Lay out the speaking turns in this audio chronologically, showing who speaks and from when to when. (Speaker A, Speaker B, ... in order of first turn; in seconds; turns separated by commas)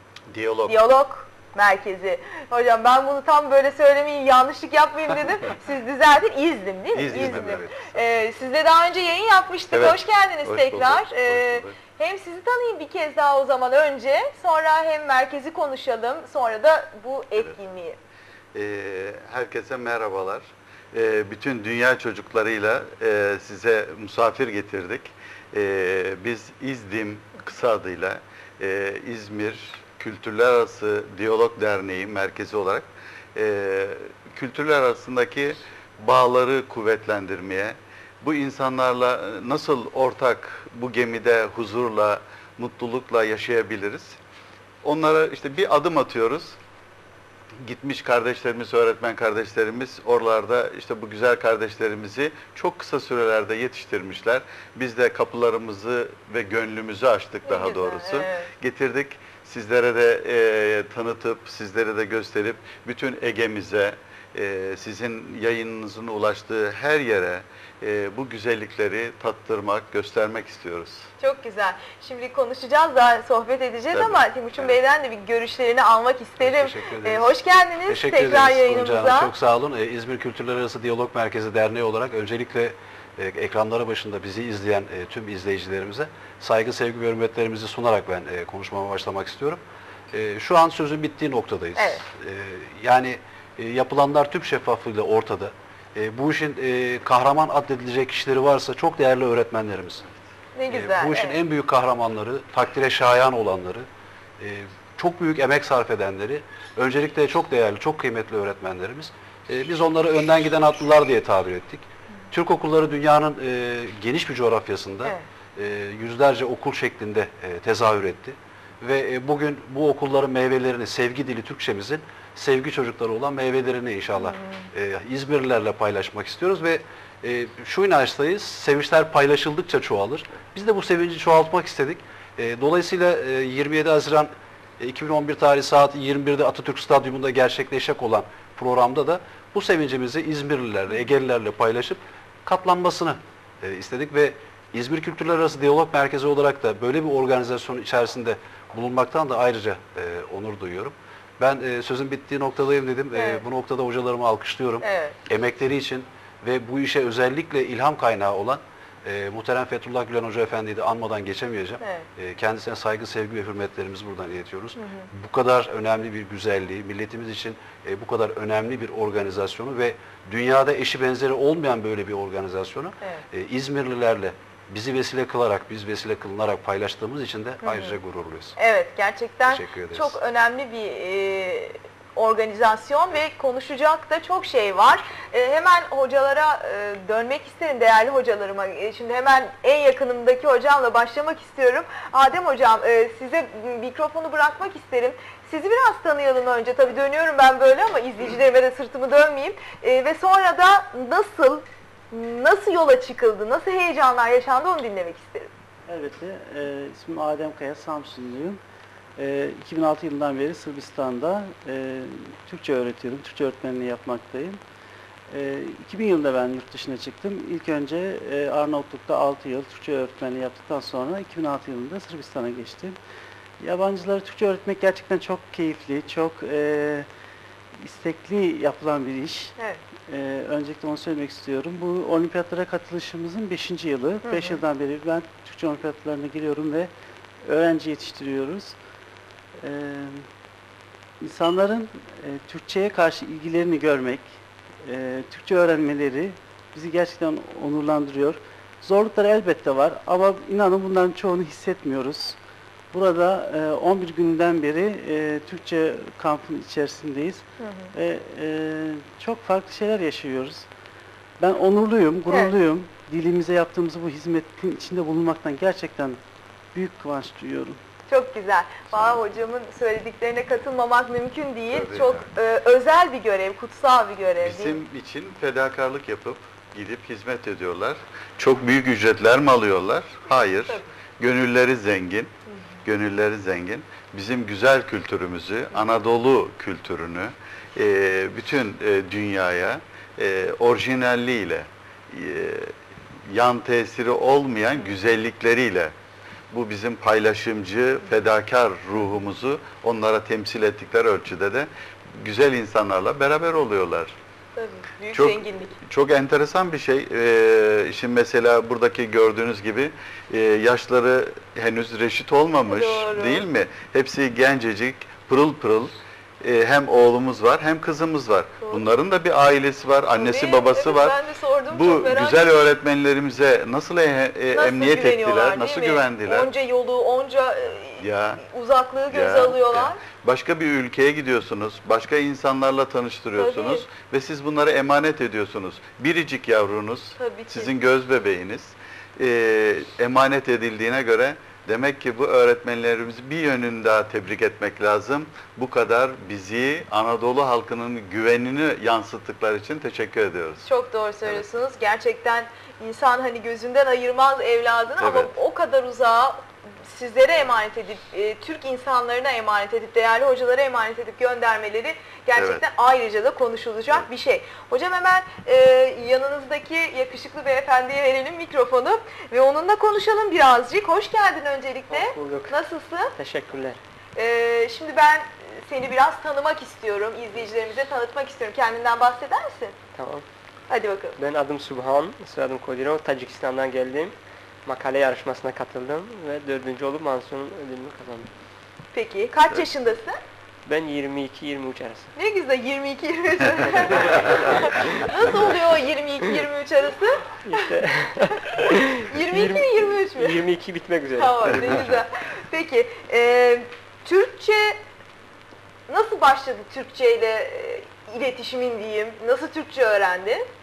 Speaker A: 0.3-0.8, Speaker B: 0.7-18.0, Speaker A: 6.9-7.6, Speaker C: 7.0-8.0, Speaker A: 9.7-11.8, Speaker A: 18.5-44.2, Speaker A: 44.8-46.6, Speaker A: 47.6-71.1, Speaker B: 57.4-58.5, Speaker B: 71.2-79.3, Speaker A: 73.9-74.8, Speaker C: 76.4-89.6, Speaker C: 90.1-100.0, Speaker B: 91.8-92.1, Speaker B: 100.5-101.4, Speaker C: 100.6-103.8, Speaker C: 104.4-178.6, Speaker B: 124.1-124.6, Speaker B: 153.1-153.4, Speaker B: 154.8-155.1, Speaker B: 164.7-165.0, Speaker B: 177.6-178.0, Speaker B: 178.6-205.5, Speaker C: 179.4-180.2, Speaker D: 205.9-208.6, Speaker D: 209.2-214.6, Speaker D: 215.3-223.0, Speaker D: 223.6-227.1, Speaker D: 227.8-229.5, Speaker D: 230.1-236.9, Speaker B: 234.2-234.6, Speaker D: 237.4-238.8, Speaker D: 239.6-240.2, Speaker D: 241.2-244.3, Speaker D: 244.8-252.4, Speaker D: 252.9-260.7, Speaker B: 257.6-257.9, Speaker D: 261.4-266.2, Speaker B: 262.3-262.5, Speaker D: 266.7-267.8, Speaker B: 268.1-274.8, Speaker A: 268.9-269.2, Speaker A: 271.7-272.3, Speaker A: 274.4-282.3, Speaker B: 280.3-280.9, Speaker A: 282.8-292.7, Speaker A: 293.3-295.9, Speaker A: 296.5-304.1, Speaker B: 304.6-305.8, Speaker A: 305.1-326.5, Speaker B: 312.6-313.5, Speaker B: 318.6-318.9, Speaker B: 320.1-322.6, Speaker B: 324.5-330.1, Speaker A: 328.0-328.4, Speaker A: 329.1-350.7, Speaker B: 333.3-333.9, Speaker B: 337.1-337.7, Speaker B: 350.6-373.1, Speaker A: 355.0-355.3, Speaker A: 362.3-362.6, Speaker E: 371.9-372.6, Speaker E: 373.2-373.8, Speaker B: 374.1-379.8, Speaker E: 379.9-380.2, Speaker B: 380.7-381.2, Speaker E: 381.2-388.3, Speaker B: 388.9-390.2, Speaker E: 390.6-392.1, Speaker B: 392.1-397.6, Speaker E: 397.4-401.9, Speaker B: 399.1-400.4, Speaker B: 401.1-404.8, Speaker A: 401.5-402.0, Speaker B: 405.9-410.5